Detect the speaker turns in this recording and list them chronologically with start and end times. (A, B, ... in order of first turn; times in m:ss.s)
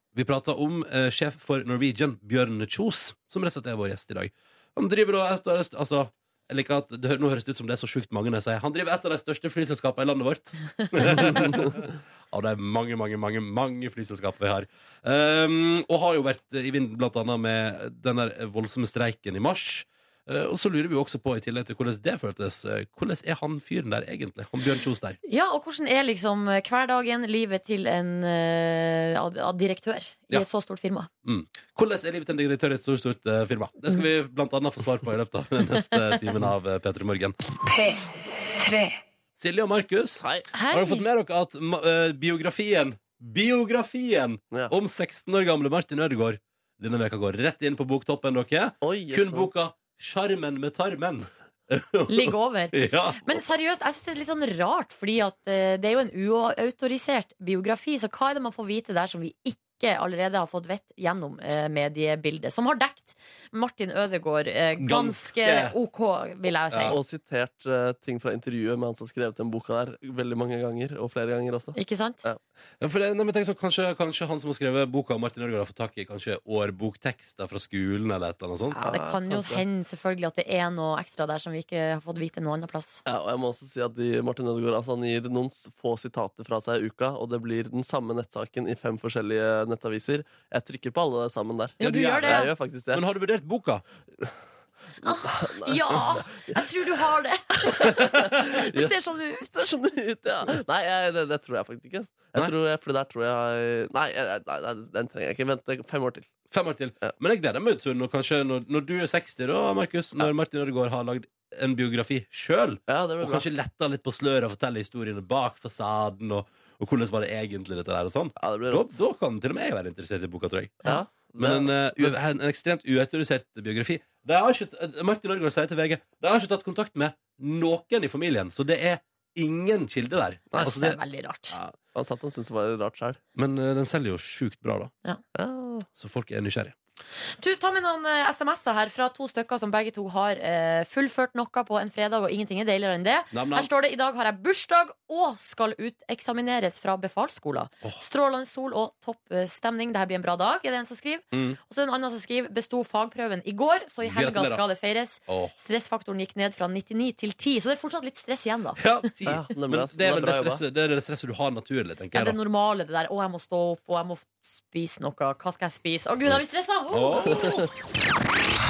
0:00.1-0:25.2 A
0:25.2-0:31.1 B
0:31.2-0:37.4 A
0:39.4-0:53.4 A
0:40.2-0:40.5 C
0:40.5-0:41.0 B
0:48.8-0:49.5 C
0:52.1-1:07.0 B
1:04.8-1:05.8 A
1:06.7-1:07.0 A
1:06.8-1:12.4 C
1:11.8-1:12.2 B
1:12.8-1:18.8 A
1:18.8-1:19.6 C
1:18.8-1:23.0 B
1:23.0-1:33.0 C
1:31.8-1:32.5 B
1:31.8-1:33.8 A
1:35.0-1:39.7 B
1:35.0-1:36.6 C
1:37.7-1:39.0 C
1:39.6-1:46.3 C
1:46.5-2:00.8 A
1:52.9-1:53.4 C
1:58.4-1:58.9 C
2:00.8-2:02.2 C
2:01.4-2:11.0 A
2:10.6-2:11.6 B
2:11.5-2:11.8 A
2:11.9-2:13.2 C
2:13.4-2:14.9 A
2:15.4-2:15.9 C
2:16.0-2:16.8 A
2:17.4-2:39.1 B
2:23.3-2:23.7 A
2:31.3-2:31.6 A
2:34.0-2:34.6 A
2:35.3-2:35.5 A
2:38.8-2:42.4 A
2:39.3-2:40.6 C
2:42.1-2:47.6 B
2:46.9-2:47.7 A
2:47.4-2:47.7 C